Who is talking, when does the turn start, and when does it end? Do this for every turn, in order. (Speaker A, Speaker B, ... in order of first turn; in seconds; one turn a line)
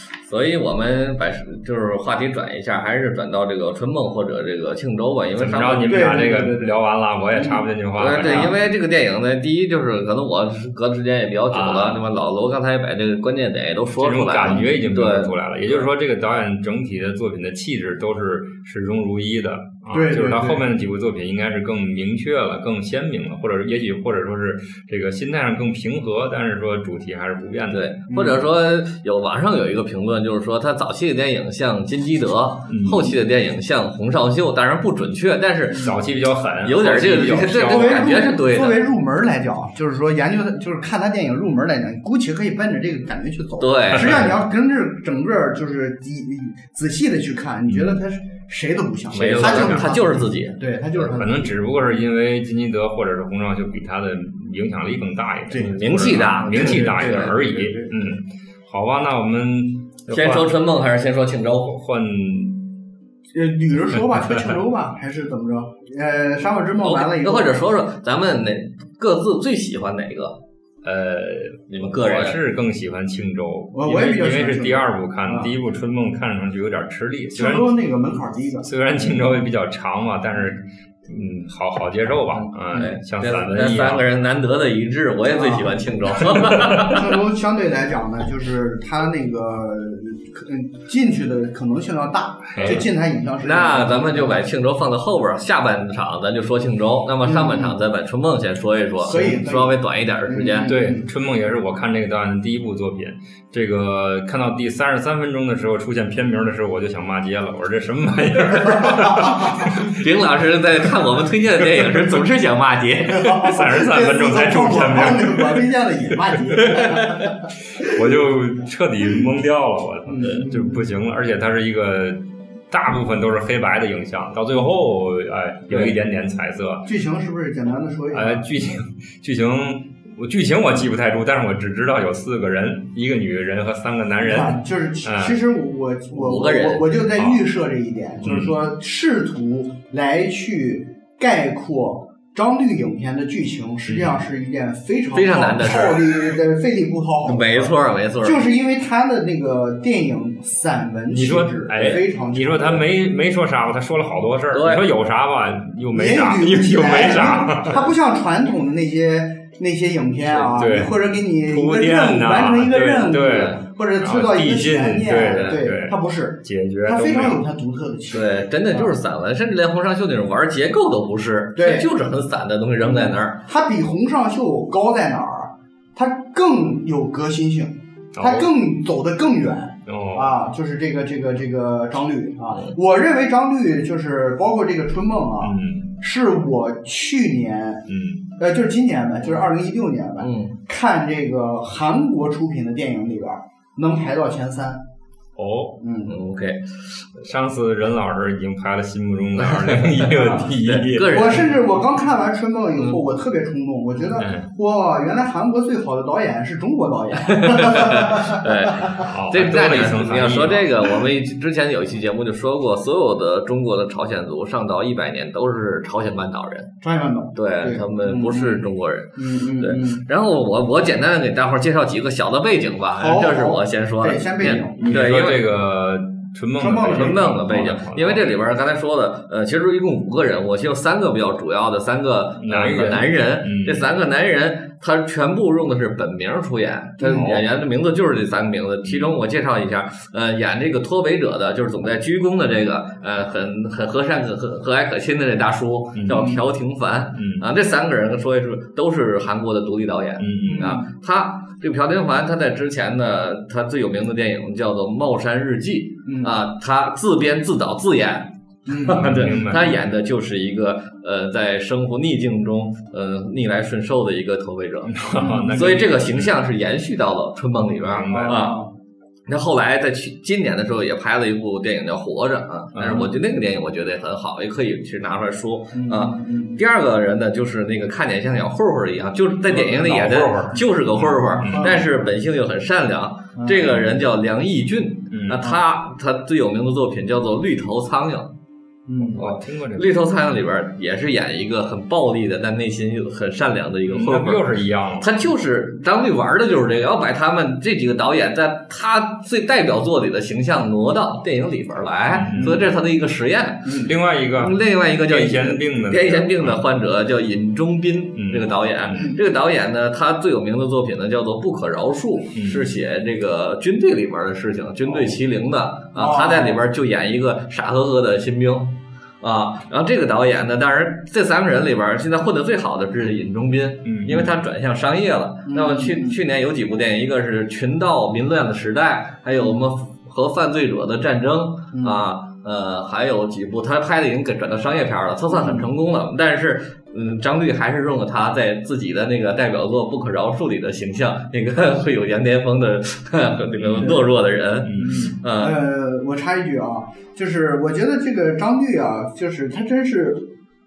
Speaker A: 0.2-6.2
Speaker B: 5.4-8.5
Speaker C: 5.9-7.7
Speaker A: 8.0-15.8
Speaker C: 8.2-8.5
Speaker B: 11.5-12.0
Speaker B: 14.0-27.9
Speaker C: 19.9-20.6
Speaker A: 27.7-35.9
Speaker C: 28.1-28.4
Speaker B: 32.7-33.1
Speaker B: 35.8-38.1
Speaker A: 36.6-38.8
Speaker C: 37.6-51.5
Speaker A: 43.6-44.3
Speaker B: 47.7-48.0
Speaker A: 49.1-50.6
Speaker B: 49.4-49.9
Speaker B: 51.0-60.5
Speaker C: 55.5-58.1
Speaker A: 55.6-57.3
Speaker A: 60.1-61.7
Speaker B: 61.6-62.7
Speaker C: 63.3-67.6
Speaker A: 66.8-70.4
Speaker B: 70.8-77.7
Speaker A: 71.7-72.4
Speaker C: 73.7-75.5
Speaker C: 77.3-78.7
Speaker B: 78.6-84.0
Speaker A: 82.3-87.1
Speaker C: 85.3-85.8
Speaker B: 86.6-86.9
Speaker C: 86.8-94.4
Speaker B: 92.5-92.9
Speaker A: 92.6-92.9
Speaker A: 93.4-100.7
Speaker C: 97.3-97.8
Speaker C: 99.0-101.1
Speaker B: 100.7-110.0
Speaker C: 108.8-109.3
Speaker A: 109.9-113.4
Speaker C: 113.1-118.0
Speaker B: 113.4-115.7
Speaker B: 116.3-117.1
Speaker B: 117.7-126.9
Speaker C: 120.1-120.9
Speaker C: 126.8-128.5
Speaker B: 128.1-135.4
Speaker C: 134.2-152.9
Speaker A: 136.1-136.9
Speaker B: 137.2-137.4
Speaker B: 138.2-138.6
Speaker B: 143.9-144.2
Speaker A: 145.1-146.4
Speaker A: 147.2-148.4
Speaker B: 151.1-157.9
Speaker A: 154.5-154.9
Speaker C: 155.9-169.0
Speaker B: 160.5-167.4
Speaker A: 163.2-163.6
Speaker A: 165.3-165.6
Speaker A: 168.1-173.4
Speaker C: 171.6-171.9
Speaker C: 172.8-187.9
Speaker B: 178.2-178.5
Speaker B: 179.9-180.4
Speaker B: 185.4-185.9
Speaker B: 187.9-188.3
Speaker C: 188.4-194.8
Speaker A: 190.2-190.6
Speaker B: 195.4-195.8
Speaker C: 195.8-196.2
Speaker A: 196.1-197.1
Speaker B: 197.2-201.3
Speaker A: 199.4-201.5
Speaker C: 200.1-200.5
Speaker C: 201.1-209.1
Speaker A: 202.8-203.0
Speaker B: 204.2-204.5
Speaker A: 207.2-216.7
Speaker B: 209.0-210.8
Speaker C: 216.8-220.0
Speaker A: 217.3-225.4
Speaker C: 223.0-225.0
Speaker B: 224.8-228.2
Speaker C: 226.6-227.3
Speaker A: 226.9-268.6
Speaker B: 232.4-233.9
Speaker C: 237.0-237.3
Speaker B: 237.1-237.4
Speaker B: 238.9-239.1
Speaker B: 245.9-246.3
Speaker C: 246.1-246.4
Speaker B: 247.1-247.5
Speaker B: 250.2-250.7
Speaker C: 250.5-250.8
Speaker C: 256.1-256.4
Speaker C: 258.7-259.4
Speaker B: 259.0-259.8
Speaker B: 264.9-266.3
Speaker C: 265.1-265.8
Speaker B: 267.8-268.5
Speaker C: 268.1-268.7
Speaker A: 269.3-288.3
Speaker B: 272.8-273.1
Speaker C: 275.7-276.6
Speaker B: 279.5-281.8
Speaker C: 281.4-282.1
Speaker C: 283.4-283.8
Speaker B: 285.1-285.5
Speaker C: 288.9-289.2
Speaker A: 289.0-345.6
Speaker B: 289.2-289.9
Speaker B: 293.9-295.1
Speaker B: 302.1-302.6
Speaker C: 302.4-302.6
Speaker C: 303.6-303.9
Speaker B: 303.8-306.6
Speaker B: 308.2-309.1
Speaker B: 312.4-312.7
Speaker C: 315.9-316.6
Speaker B: 323.9-324.3
Speaker C: 325.5-326.2
Speaker C: 331.7-332.0
Speaker C: 335.3-335.7
Speaker B: 343.6-343.9
Speaker C: 343.8-344.1
Speaker B: 344.6-345.1
Speaker C: 344.8-350.3